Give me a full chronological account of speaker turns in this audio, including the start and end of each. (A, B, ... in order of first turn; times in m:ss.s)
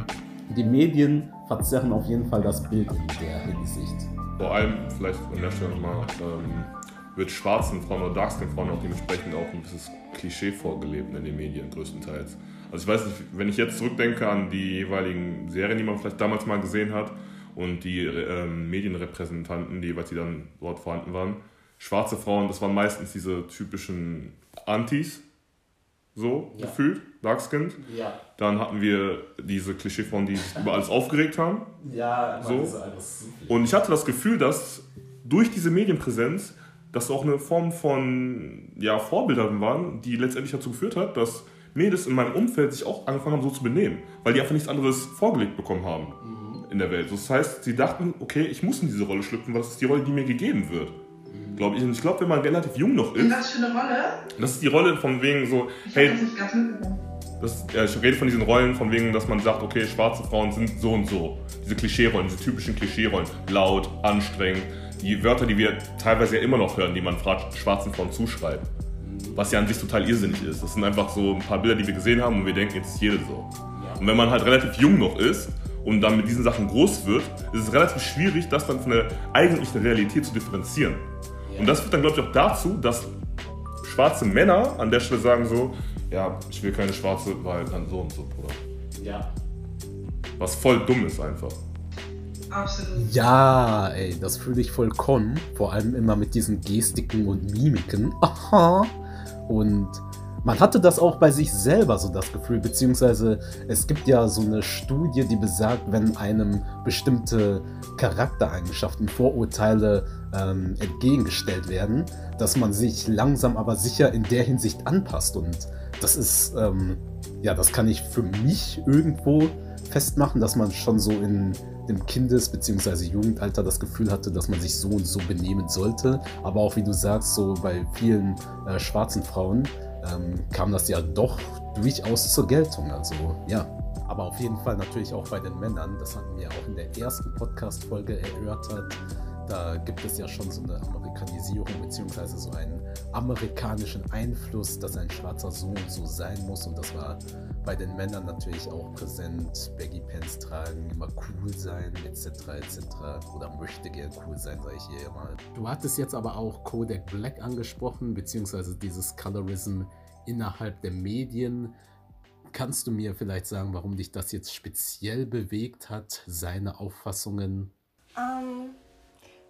0:00.5-0:04.1 A
0:04.4-0:25.2 B
0:26.1-0:27.8 B
0:27.8-0:28.2 A
0:28.4-0:31.7 B
0:31.8-0:33.6 A
0:32.4-0:32.7 B
0:33.5-0:51.0 B
0:46.2-0:46.6 A
0:51.3-0:51.7 A
0:51.6-0:53.4 B
0:53.2-0:54.2 C
0:54.4-0:56.2 B
0:55.8-0:57.0 C
0:57.4-1:08.7 B
1:09.0-1:09.5 A
1:09.4-1:21.0 B
1:10.2-1:10.5 A
1:13.7-1:14.0 A
1:21.5-1:21.8 A
1:21.5-1:23.1 B
1:23.8-1:28.6 B
1:29.0-1:29.3 A
1:30.4-1:31.6 B
1:32.5-1:33.1 C
1:32.9-1:38.9 A
1:39.5-2:41.7 A
2:42.5-2:47.7 A
2:48.2-2:48.8 C